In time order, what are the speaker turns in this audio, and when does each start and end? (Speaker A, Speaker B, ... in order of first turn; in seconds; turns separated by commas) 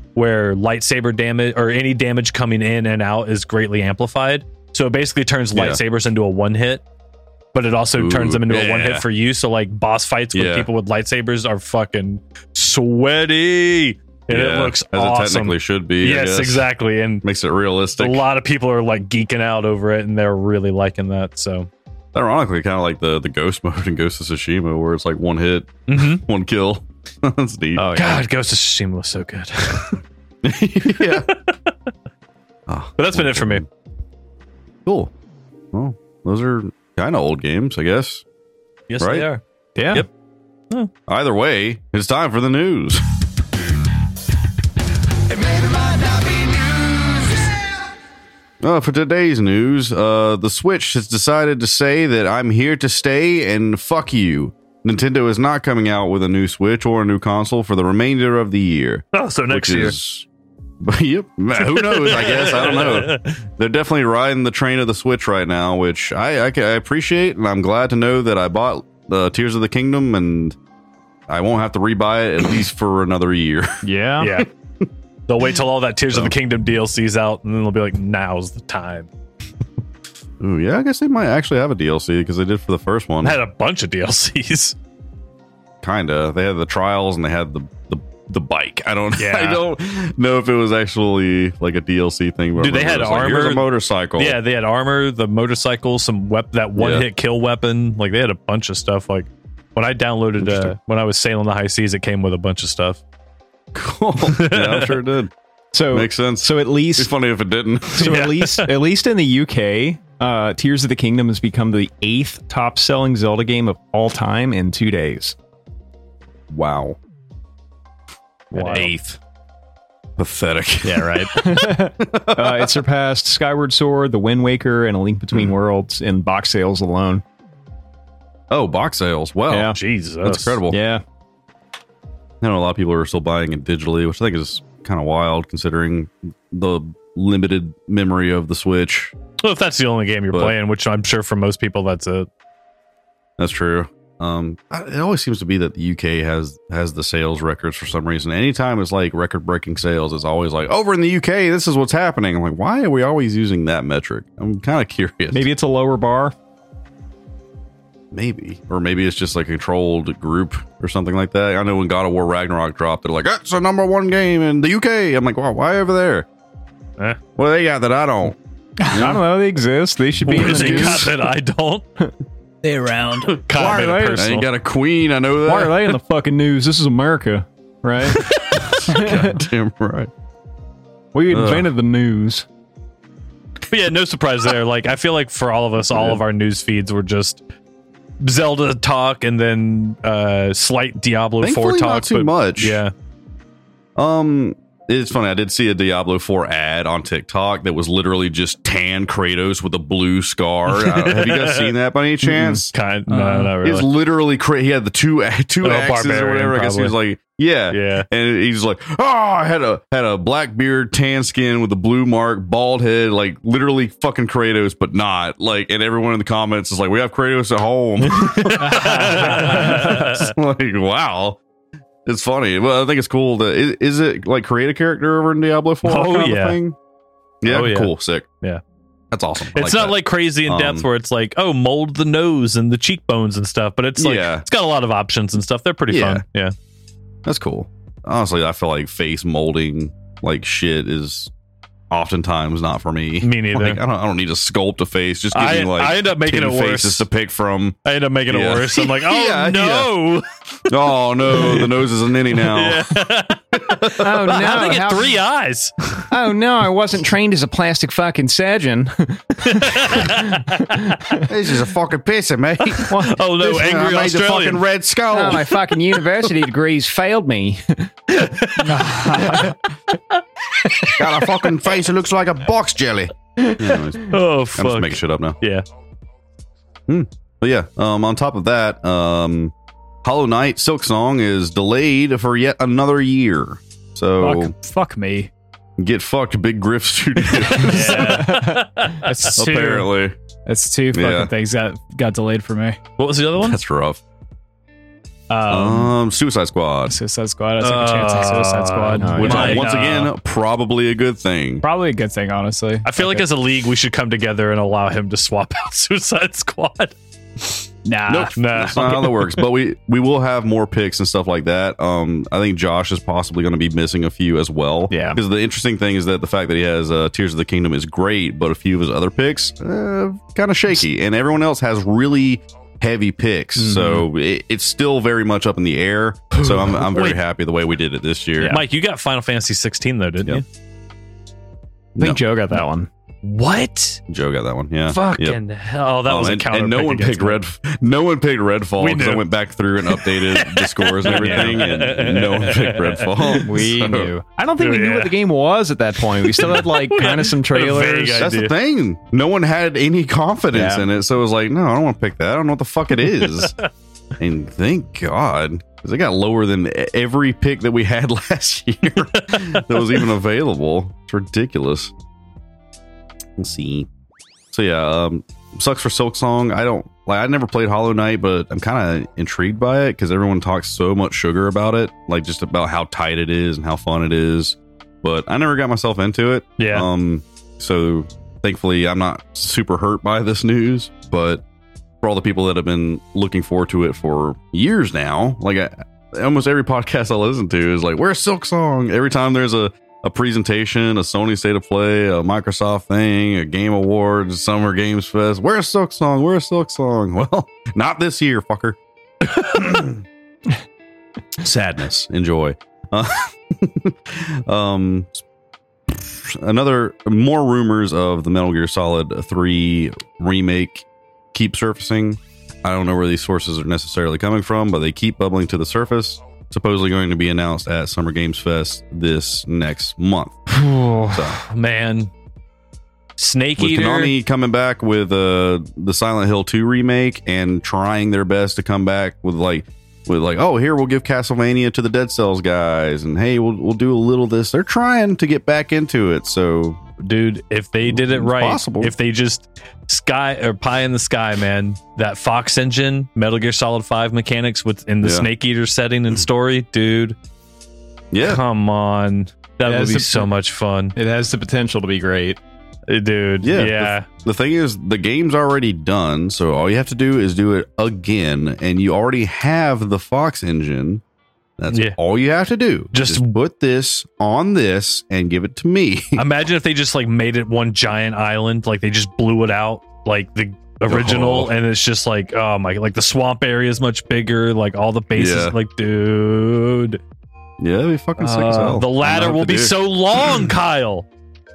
Speaker A: 0.1-6.8, Speaker B: 5.5-5.8, Speaker A: 7.5-17.2, Speaker B: 8.0-9.1, Speaker B: 10.3-10.7, Speaker B: 14.3-16.7, Speaker B: 17.2-18.2, Speaker A: 18.0-21.7, Speaker B: 22.1-27.9, Speaker A: 25.9-26.2, Speaker C: 27.8-28.2, Speaker A: 27.9-30.0, Speaker B: 30.4-31.3, Speaker A: 30.9-31.6, Speaker B: 32.7-33.6, Speaker A: 33.0-33.6, Speaker B: 34.9-35.1, Speaker B: 35.7-38.2, Speaker A: 38.9-40.1, Speaker B: 39.0-39.3, Speaker C: 39.8-40.0, Speaker B: 41.1-43.0, Speaker B: 48.6-60.3, Speaker A: 59.1-60.0, Speaker B: 60.8-70.6, Speaker A: 61.5-63.4, Speaker B: 71.3-73.8, Speaker C: 73.8-74.3, Speaker A: 74.2-74.5, Speaker B: 74.4-74.9, Speaker A: 75.3-79.1, Speaker B: 80.4-83.4, Speaker A: 83.2-84.8, Speaker B: 85.8-94.4, Speaker A: 89.2-89.6, Speaker A: 92.6-103.0, Speaker B: 96.8-97.1, Speaker B: 100.4-100.8, Speaker B: 103.7-105.3, Speaker A: 104.2-105.0, Speaker C: 105.7-107.1, Speaker B: 105.9-108.2, Speaker C: 107.9-115.4, Speaker A: 108.0-108.7, Speaker B: 116.5-117.0, Speaker C: 118.5-119.0, Speaker A: 118.5-118.9, Speaker B: 118.6-119.2, Speaker B: 120.2-122.8, Speaker C: 120.8-127.2, Speaker B: 128.5-130.8, Speaker C: 129.5-129.8, Speaker A: 129.7-130.6, Speaker C: 130.7-131.0, Speaker B: 132.4-139.1, Speaker A: 139.4-142.3, Speaker B: 143.4-155.5, Speaker C: 155.3-156.3, Speaker B: 158.1-166.3, Speaker B: 167.4-168.4, Speaker B: 168.9-169.2, Speaker C: 168.9-171.2, Speaker A: 170.2-171.8, Speaker B: 170.3-171.2, Speaker D: 172.6-173.5, Speaker A: 173.4-174.4, Speaker C: 173.5-174.5, Speaker B: 173.8-175.9, Speaker C: 175.4-179.4, Speaker B: 178.5-180.1, Speaker C: 181.1-182.5, Speaker B: 181.3-181.7, Speaker A: 183.7-187.4, Speaker B: 185.9-186.2, Speaker A: 188.2-192.9, Speaker B: 191.4-192.8, Speaker B: 194.0-202.7, Speaker A: 200.8-201.7, Speaker A: 202.2-203.9, Speaker D: 203.1-203.5, Speaker B: 203.6-221.4, Speaker A: 205.6-206.9, Speaker A: 207.7-208.1, Speaker A: 218.1-220.3, Speaker D: 218.7-219.2, Speaker B: 222.1-226.8, Speaker A: 225.8-226.6, Speaker B: 227.4-228.3, Speaker A: 227.5-228.6, Speaker B: 229.1-230.9, Speaker A: 229.6-236.5, Speaker B: 234.0-234.4, Speaker B: 235.9-236.2, Speaker B: 237.2-241.3, Speaker B: 241.9-247.8, Speaker A: 243.2-243.8, Speaker A: 245.3-247.0, Speaker A: 247.8-250.8, Speaker B: 248.3-249.9, Speaker B: 250.7-254.6, Speaker A: 251.3-251.8, Speaker A: 252.3-256.0, Speaker C: 254.0-255.2, Speaker C: 256.1-261.2, Speaker A: 259.5-261.2, Speaker B: 261.2-265.6, Speaker A: 262.8-264.6, Speaker C: 262.9-263.2, Speaker C: 265.1-267.9, Speaker A: 268.1-269.4, Speaker D: 268.6-269.6, Speaker C: 269.2-269.5, Speaker B: 270.9-275.4, Speaker C: 273.4-273.7, Speaker A: 274.0-275.6, Speaker B: 276.9-279.5, Speaker B: 280.0-284.5, Speaker D: 284.2-285.3, Speaker B: 285.8-288.5, Speaker D: 287.3-289.9, Speaker A: 287.6-289.1, Speaker B: 289.4-290.2, Speaker D: 290.5-292.8, Speaker B: 290.9-291.3, Speaker A: 293.0-293.6, Speaker B: 293.4-294.0, Speaker D: 295.3-295.9, Speaker B: 295.5-296.9, Speaker D: 296.9-299.8, Speaker A: 297.6-300.1, Speaker C: 299.0-299.7, Speaker B: 299.1-301.6, Speaker D: 301.6-303.3, Speaker A: 302.9-307.6, Speaker D: 307.9-308.4, Speaker B: 308.1-328.6, Speaker A: 308.3-309.3, Speaker C: 314.9-315.2, Speaker C: 323.6-324.1, Speaker C: 326.4-327.1, Speaker C: 328.4-328.6, Speaker A: 328.5-330.4, Speaker B: 332.0-332.2, Speaker C: 332.0-332.9, Speaker A: 333.2-334.0, Speaker B: 334.1-335.4, Speaker A: 334.9-337.4, Speaker B: 336.1-344.1, Speaker A: 338.8-339.3, Speaker A: 339.9-343.4, Speaker C: 341.1-341.8, Speaker C: 343.4-348.3, Speaker A: 344.6-345.1, Speaker A: 346.2-348.5, Speaker B: 348.2-353.6, Speaker C: 350.5-350.9, Speaker B: 354.2-361.9, Speaker B: 363.4-363.9, Speaker B: 364.5-381.4, Speaker A: 376.6-376.9, Speaker B: 382.0-400.0, Speaker B: 401.4-405.2, Speaker B: 405.9-421.4, Speaker A: 420.9-422.1, Speaker A: 423.2-424.1, Speaker B: 423.6-436.8, Speaker A: 437.0-447.2, Speaker B: 437.9-438.9, Speaker B: 445.0-445.3, Speaker B: 448.1-448.4, Speaker A: 448.2-450.9, Speaker C: 449.7-450.3, Speaker C: 450.9-452.4, Speaker A: 452.9-454.1, Speaker B: 453.4-461.0, Speaker B: 461.6-466.2, Speaker A: 461.7-462.0, Speaker A: 462.9-463.4, Speaker A: 466.2-477.0, Speaker B: 470.9-471.5, Speaker B: 475.1-475.6, Speaker B: 477.6-480.5, Speaker A: 478.2-481.1